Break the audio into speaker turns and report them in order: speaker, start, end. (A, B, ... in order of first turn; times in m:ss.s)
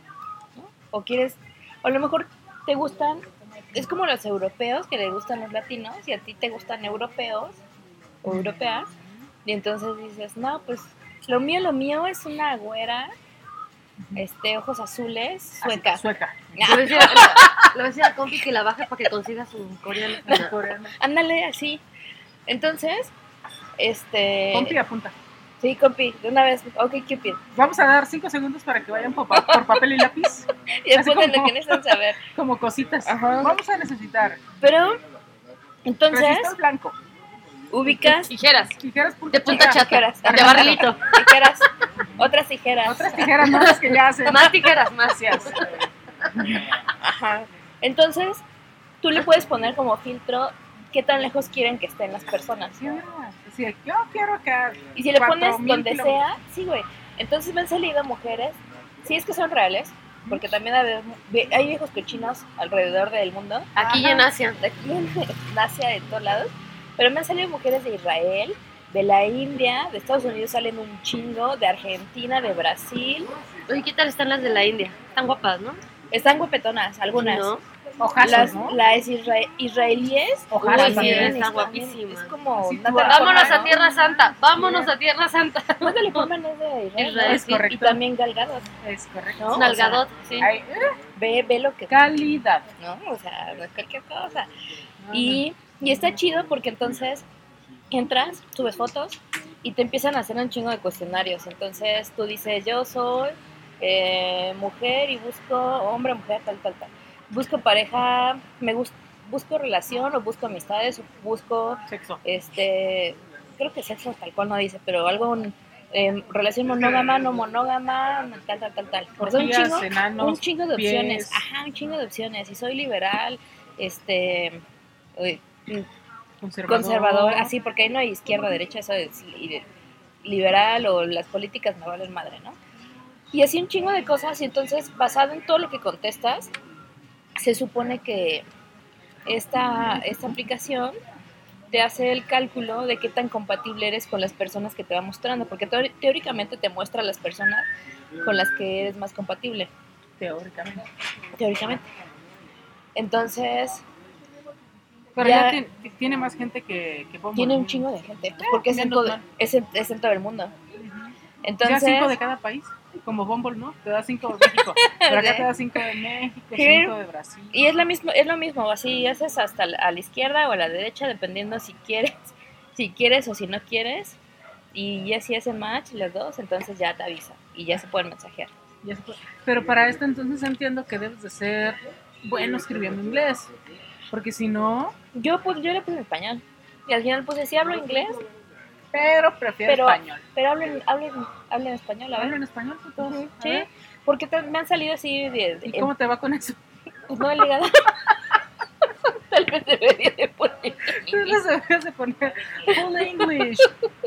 0:00.6-0:07.6 A
0:08.2-0:08.9 A
0:08.2-0:08.8 B
0:09.4-0:13.1 A
0:14.2-0:16.0 A
0:15.6-0:17.7 B
0:16.5-0:17.4 A
0:16.6-0:20.5 C
0:20.2-0:20.9 B
0:21.0-0:21.8 A
0:22.5-0:23.1 A
0:23.8-0:24.8 A
0:24.5-0:25.1 B
0:25.6-0:27.4 A
0:27.5-0:34.4 B
0:29.3-0:29.7 A
0:30.8-0:32.2 A
0:33.0-0:33.6 A
0:34.6-0:35.0 A
0:35.8-0:36.5 A
0:36.1-0:37.0 B
0:37.7-0:38.3 A
0:38.1-0:38.8 C
0:38.8-0:40.9 B
0:39.3-0:41.3 C
0:39.5-0:41.7 A
0:42.2-0:43.3 A
0:42.8-0:45.6 B
0:43.3-0:45.7 C
0:47.0-0:48.4 A
0:49.0-0:52.8 A
0:52.7-0:56.2 B
0:54.9-1:13.3 A
1:00.2-1:00.5 B
1:03.8-1:04.6 C
1:13.7-1:15.8 C
1:16.1-1:17.5 A
1:17.1-1:17.6 C
1:18.0-1:18.8 B
1:18.2-1:23.7 A
1:20.5-1:21.4 B
1:20.6-1:22.3 C
1:22.6-1:24.6 B
1:23.0-1:26.3 C
1:25.8-1:28.7 A
1:27.0-1:27.7 C
1:27.2-1:28.0 B
1:28.8-1:29.7 B
1:29.4-1:30.0 A
1:29.5-1:30.5 C
1:30.4-1:31.0 B
1:31.2-1:32.0 A
1:31.9-1:32.7 B
1:32.8-1:34.5 A
1:35.0-1:35.4 B
1:35.1-1:37.2 A
1:37.9-2:04.6 A
1:51.9-1:52.2 B
1:59.2-2:01.4 B
2:05.2-2:05.9 A
2:06.4-2:07.5 B
2:06.7-2:09.7 A
2:10.2-2:12.6 A
2:13.3-2:16.5 A
2:17.4-2:18.4 A
2:19.2-2:20.9 A
2:21.7-2:27.7 A
2:28.2-2:29.7 A
2:30.2-2:30.8 B
2:31.4-2:31.8 A
2:33.0-2:33.8 A
2:35.2-2:39.2 B
2:35.2-2:35.6 A
2:37.4-2:40.5 A
2:40.8-2:41.1 B
2:41.4-2:42.1 A
2:41.6-2:47.7 B
2:44.4-2:45.5 A
2:46.5-2:46.9 A
2:47.5-2:54.2 A
2:54.7-2:58.5 A
2:58.8-3:03.5 B
3:04.1-3:05.0 B
3:05.1-3:08.2 A
3:08.9-3:10.2 B
3:09.6-3:12.4 A
3:12.1-3:13.7 B
3:13.0-3:15.9 A
3:15.6-3:16.6 B
3:17.1-3:18.1 A
3:18.9-3:21.4 A
3:20.9-3:23.7 B
3:22.7-3:23.7 A